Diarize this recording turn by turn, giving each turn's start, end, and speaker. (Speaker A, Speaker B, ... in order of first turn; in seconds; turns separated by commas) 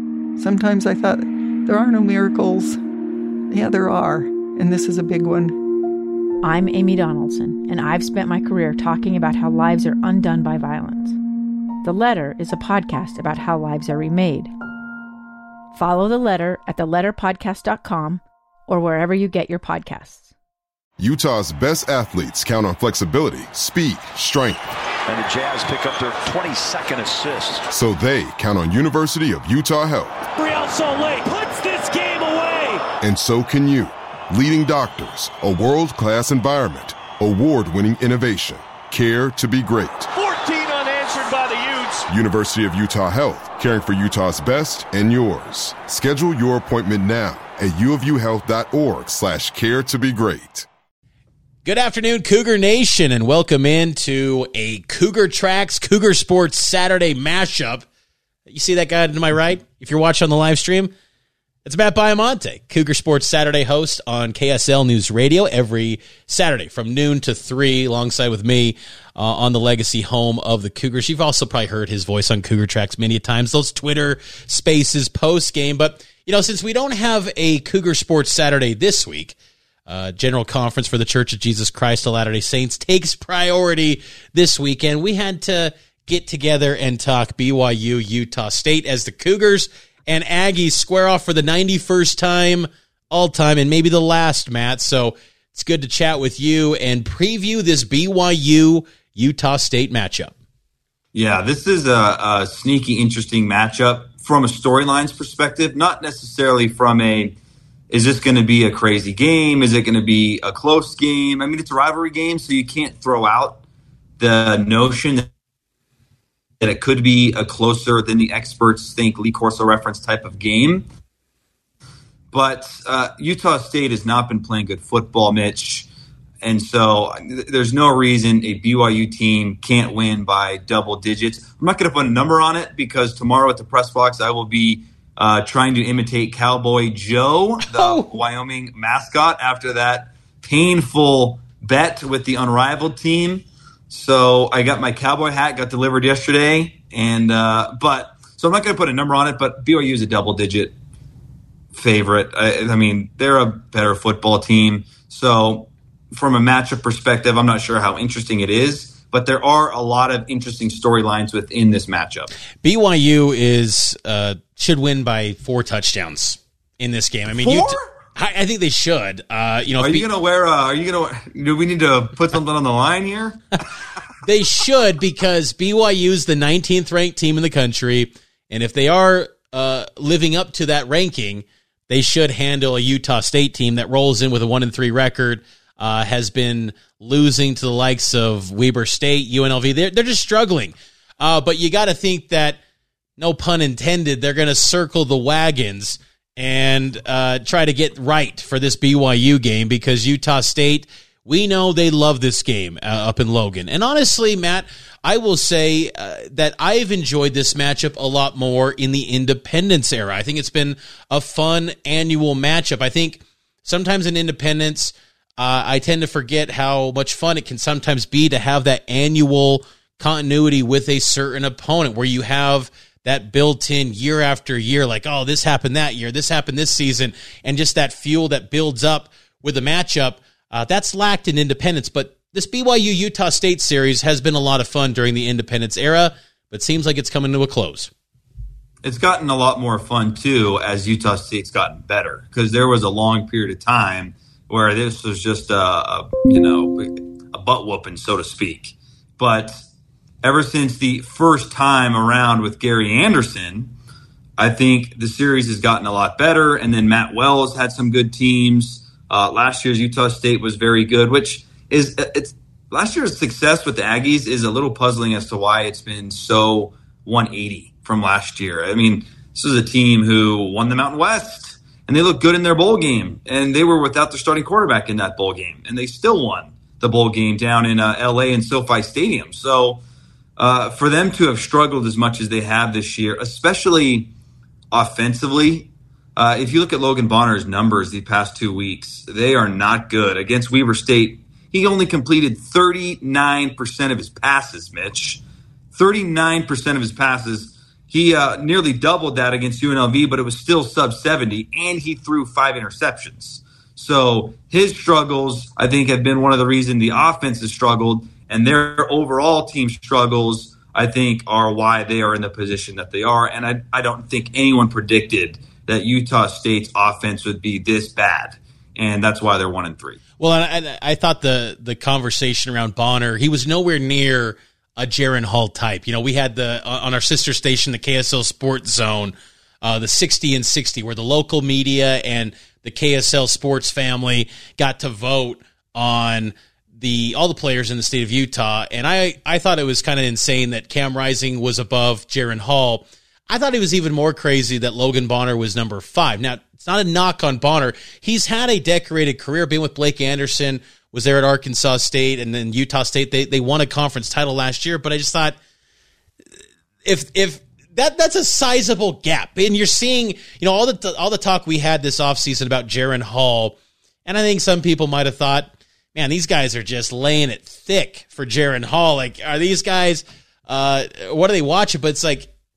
Speaker A: 0.4-2.8, Speaker A: 3.5-5.6, Speaker B: 6.4-11.2, Speaker B: 11.8-14.5, Speaker B: 15.7-20.3, Speaker C: 21.0-24.7, Speaker D: 25.1-27.7, Speaker C: 27.7-30.2, Speaker E: 30.4-32.9, Speaker C: 33.0-40.1, Speaker E: 40.1-42.1, Speaker C: 42.1-50.7, Speaker F: 51.6-57.9, Speaker F: 58.5-60.9, Speaker F: 61.6-79.3, Speaker F: 79.9-100.3, Speaker G: 101.1-107.4, Speaker G: 107.9-113.6, Speaker G: 114.2-115.3, Speaker G: 116.6-120.8, Speaker G: 122.3-125.9, Speaker G: 126.4-150.7, Speaker F: 137.7-138.1, Speaker G: 151.7-162.3, Speaker F: 162.6-170.1, Speaker G: 167.3-167.8, Speaker G: 169.8-173.4, Speaker F: 174.2-192.6, Speaker F: 193.2-237.9, Speaker G: 238.8-249.7, Speaker G: 250.2-253.7, Speaker G: 254.4-279.8, Speaker G: 280.4-284.1, Speaker G: 284.7-295.2, Speaker G: 295.7-320.0, Speaker F: 320.2-355.4, Speaker F: 356.9-372.3